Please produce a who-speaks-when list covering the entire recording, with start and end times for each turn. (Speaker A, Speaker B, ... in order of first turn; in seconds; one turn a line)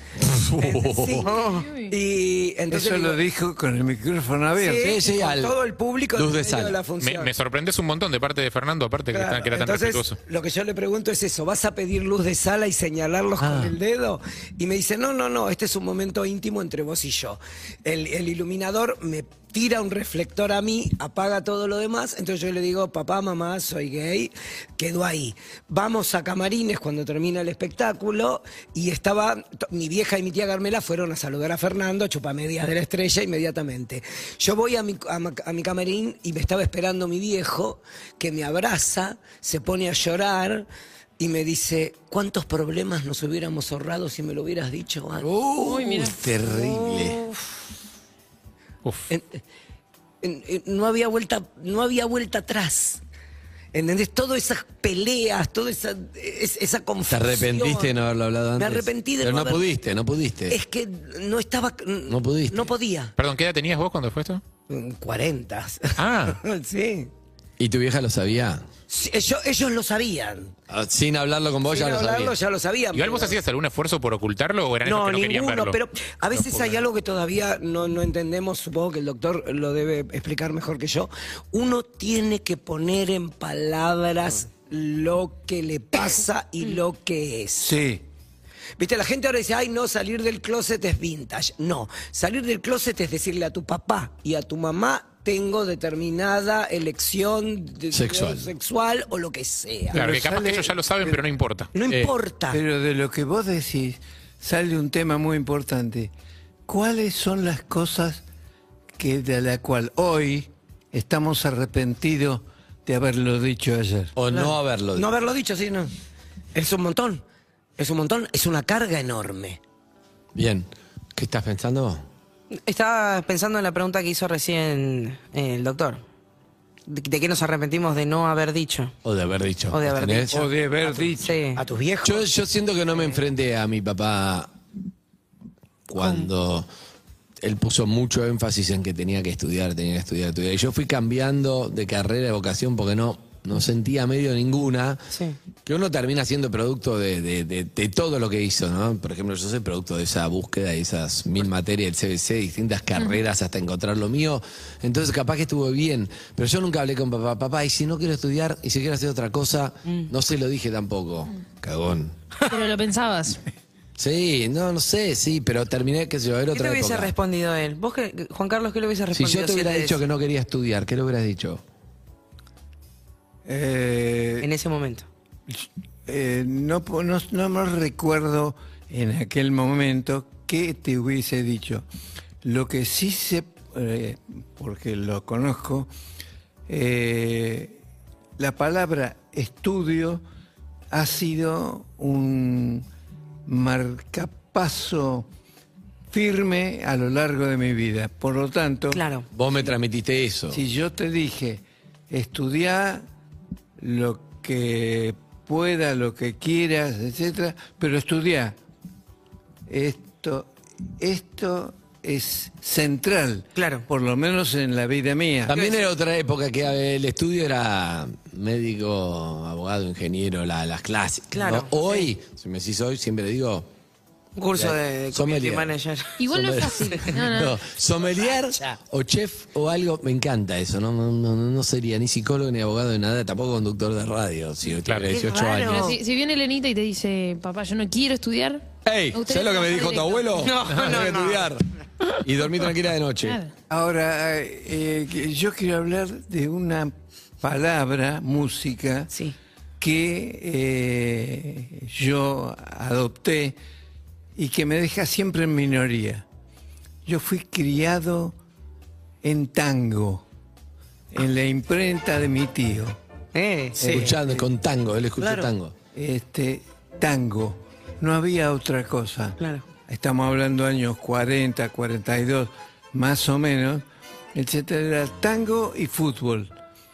Speaker A: 0.2-1.3
Speaker B: 0.6-3.2
Speaker C: 1.4-1.7
Speaker D: 2.7-4.9
Speaker B: 4.5-7.3
Speaker A: 4.8-5.6
Speaker A: 6.1-6.8
Speaker E: 7.0-10.2
Speaker B: 9.1-40.7
Speaker A: 13.4-13.8
Speaker B: 41.2-45.3
Speaker A: 45.2-47.2
Speaker F: 45.6-46.2
Speaker B: 46.6-47.2
Speaker B: 49.1-49.4
Speaker B: 50.2-53.0
Speaker B: 53.7-57.9
Speaker A: 57.1-60.6
Speaker B: 58.6-59.7
Speaker B: 60.5-63.1
Speaker A: 62.1-62.7
Speaker E: 63.2-64.4
Speaker B: 64.7-67.1
Speaker E: 66.0-66.4
Speaker A: 67.6-68.6
Speaker B: 68.9-70.5
Speaker A: 70.7-72.3
Speaker B: 71.7-73.3
Speaker E: 72.9-75.8
Speaker B: 74.8-87.7
Speaker E: 76.3-76.8
Speaker D: 87.6-88.0
Speaker B: 88.8-100.0
Speaker A: 97.9-98.5
Speaker E: 99.9-101.7
Speaker D: 99.9-101.2
Speaker B: 101.7-102.6
Speaker A: 101.9-102.1
Speaker D: 102.5-106.1
Speaker D: 106.7-108.2
Speaker D: 109.0-114.1
Speaker A: 114.2-115.1
Speaker B: 114.3-115.9
Speaker B: 116.5-117.2
Speaker B: 117.8-119.6
Speaker A: 120.3-122.0
Speaker C: 122.5-126.0
Speaker C: 126.9-128.9
Speaker A: 129.0-130.4
Speaker C: 129.7-131.6
Speaker D: 130.3-131.4
Speaker B: 131.5-132.2
Speaker A: 132.0-134.5
Speaker A: 135.9-136.7
Speaker A: 137.4-145.1
Speaker C: 145.1-145.4
Speaker A: 145.7-162.1
Speaker F: 162.5-163.4
Speaker A: 164.0-167.1
Speaker C: 166.5-170.0
Speaker A: 169.1-171.6
Speaker D: 173.4-174.5
Speaker C: 174.4-175.1
Speaker D: 175.5-181.8
Speaker D: 182.4-185.9
Speaker D: 186.7-187.8
Speaker D: 188.4-190.2
Speaker D: 190.9-192.8
Speaker D: 193.5-195.3
Speaker D: 196.1-199.0
Speaker C: 198.9-199.2
Speaker A: 199.3-200.6
Speaker D: 200.5-203.0
Speaker D: 203.8-208.6
Speaker D: 209.7-215.6
Speaker C: 213.5-213.8
Speaker A: 215.5-223.7
Speaker C: 215.5-215.8
Speaker C: 221.3-222.1
Speaker C: 224.3-226.2
Speaker A: 224.5-225.7
Speaker F: 226.2-227.5
Speaker A: 226.3-235.9
Speaker C: 226.9-227.2
Speaker B: 228.0-228.8
Speaker E: 234.9-235.1
Speaker C: 235.1-236.0
Speaker F: 235.7-240.4
Speaker A: 238.8-241.6
Speaker C: 240.4-241.5
Speaker A: 242.2-243.4
Speaker F: 243.2-243.5
Speaker D: 243.7-249.1
Speaker D: 249.8-253.6
Speaker D: 254.4-256.2
Speaker D: 257.1-258.3
Speaker D: 259.2-260.2
Speaker D: 261.1-263.0
Speaker C: 263.3-264.1
Speaker D: 263.8-264.4
Speaker A: 263.8-265.7
Speaker B: 265.2-265.5
Speaker D: 265.9-273.8
Speaker C: 269.4-269.6
Speaker D: 274.3-276.5